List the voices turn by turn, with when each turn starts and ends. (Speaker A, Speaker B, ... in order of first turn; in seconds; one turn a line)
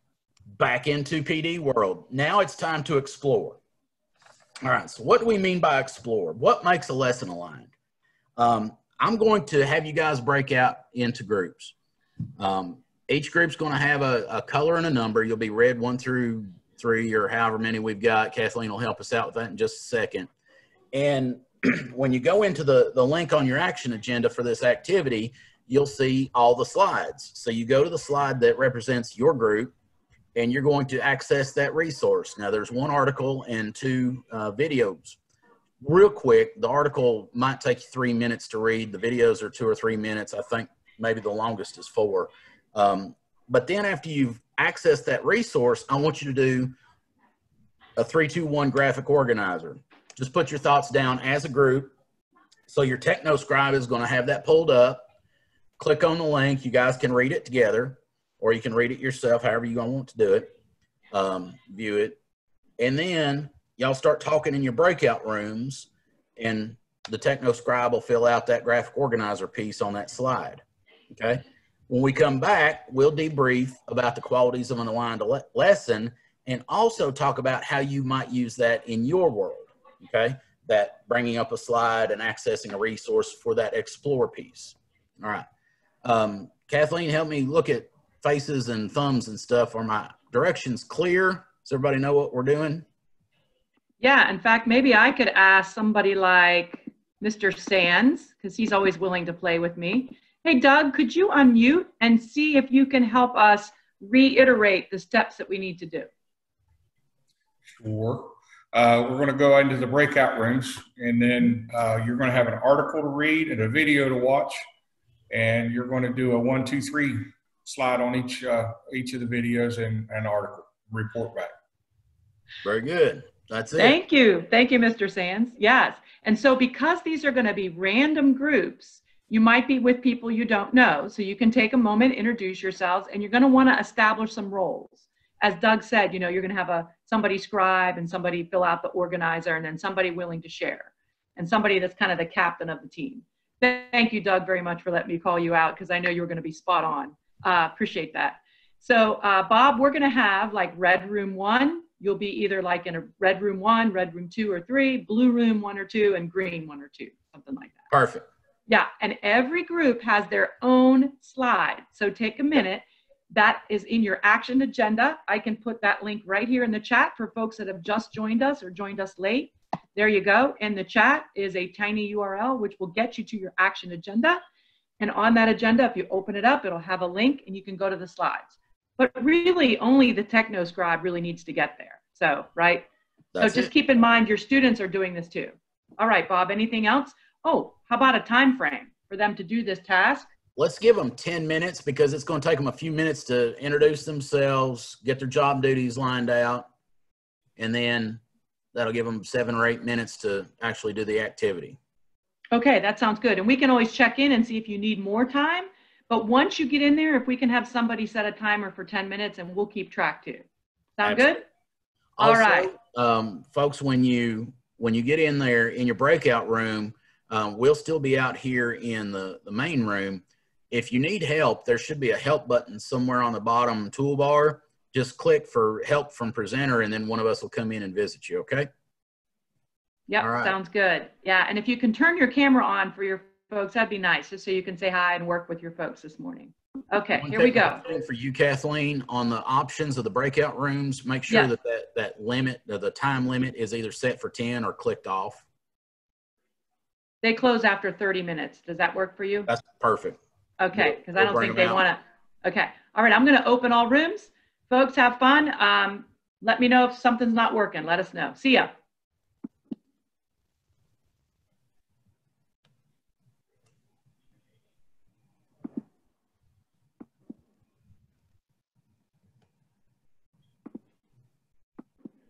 Speaker A: 0.6-3.6
Speaker A: 4.6-7.7
Speaker A: 8.4-11.7
Speaker A: 12.4-20.3
Speaker A: 20.9-29.7
Speaker A: 30.4-35.2
Speaker A: 35.8-46.7
Speaker A: 48.0-51.9
Speaker A: 52.7-55.1
Speaker A: 55.8-60.5
Speaker A: 61.1-62.2
Speaker A: 62.8-85.5
Speaker A: 86.0-92.8
Speaker B: 94.0-106.1
Speaker C: 107.8-114.6
Speaker C: 115.3-121.5
Speaker A: 122.6-124.0
Speaker B: 123.8-157.9
Speaker A: 157.9-158.3
Speaker B: 158.7-174.4
Speaker B: 175.0-182.9
Speaker A: 183.3-183.7
Speaker B: 183.4-190.3
Speaker A: 190.6-196.7
Speaker A: 197.6-198.2
Speaker A: 198.7-201.8
Speaker B: 202.5-210.4
Speaker B: 211.0-211.4
Speaker A: 211.0-211.4
Speaker A: 212.2-228.7
Speaker B: 212.2-212.7
Speaker B: 230.1-237.8
Speaker A: 230.2-230.5
Speaker A: 237.2-245.4
Speaker B: 247.2-249.5
Speaker A: 249.5-250.2
Speaker B: 250.6-258.7
Speaker A: 250.8-251.9